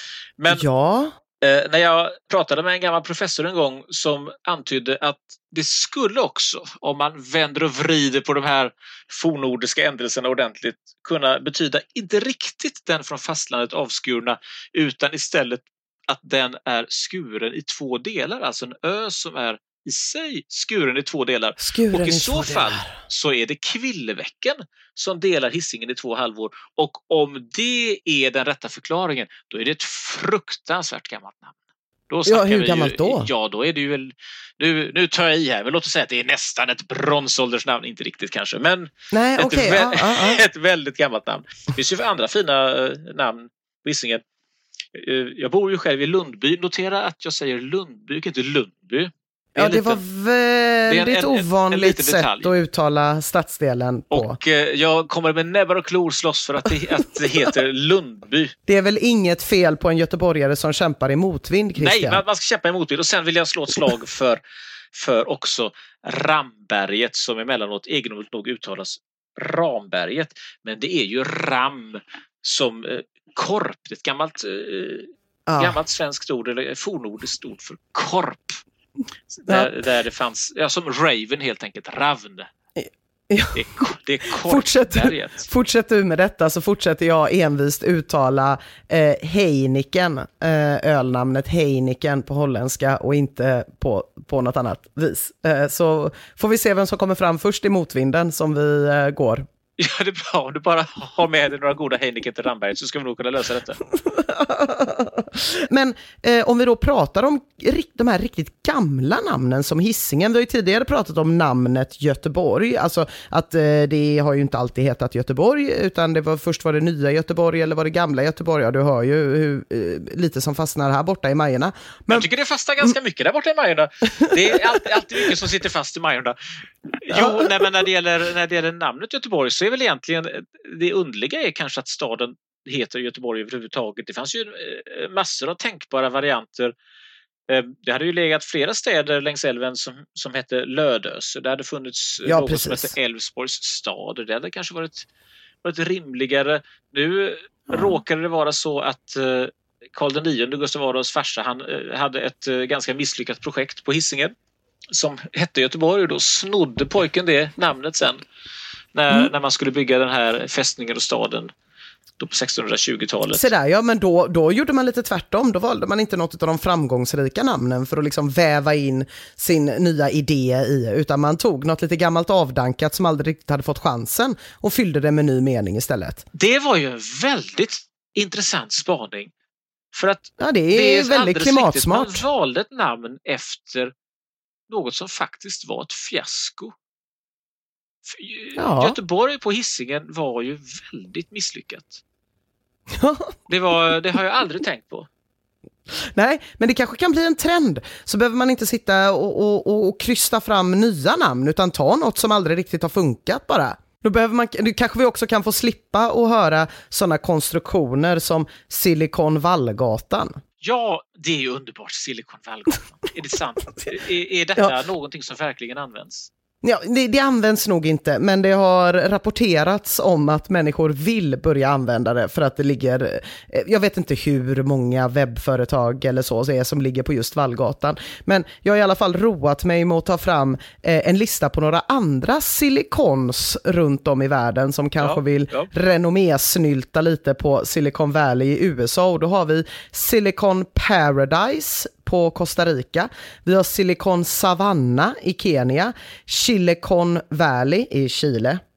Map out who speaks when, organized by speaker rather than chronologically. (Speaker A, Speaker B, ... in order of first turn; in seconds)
Speaker A: 0.4-0.6, 1.4-31.5, 32.1-44.2, 44.9-50.0, 50.9-52.5, 54.1-58.5, 61.8-64.4, 64.9-78.6, 79.3-82.5, 83.5-85.5, 99.8-103.8, 122.1-126.4, 127.0-136.7, 137.5-145.1, 145.6-154.3, 154.9-158.2, 158.9-161.5, 162.2-163.5, 176.3-179.3, 179.9-183.9, 184.7-186.7, 188.1-192.0, 193.5-195.1, 210.6-216.3, 235.0-235.7
Speaker B: 0.5-1.1, 21.6-23.0, 32.3-33.3, 39.1-40.4, 49.5-54.4, 58.7-62.2, 75.5-75.8, 82.8-99.5, 103.9-122.3, 127.1-127.7, 142.2-142.9, 163.3-176.2, 180.4-182.2, 188.5-189.0, 192.9-193.4, 195.9-210.4, 216.6-248.6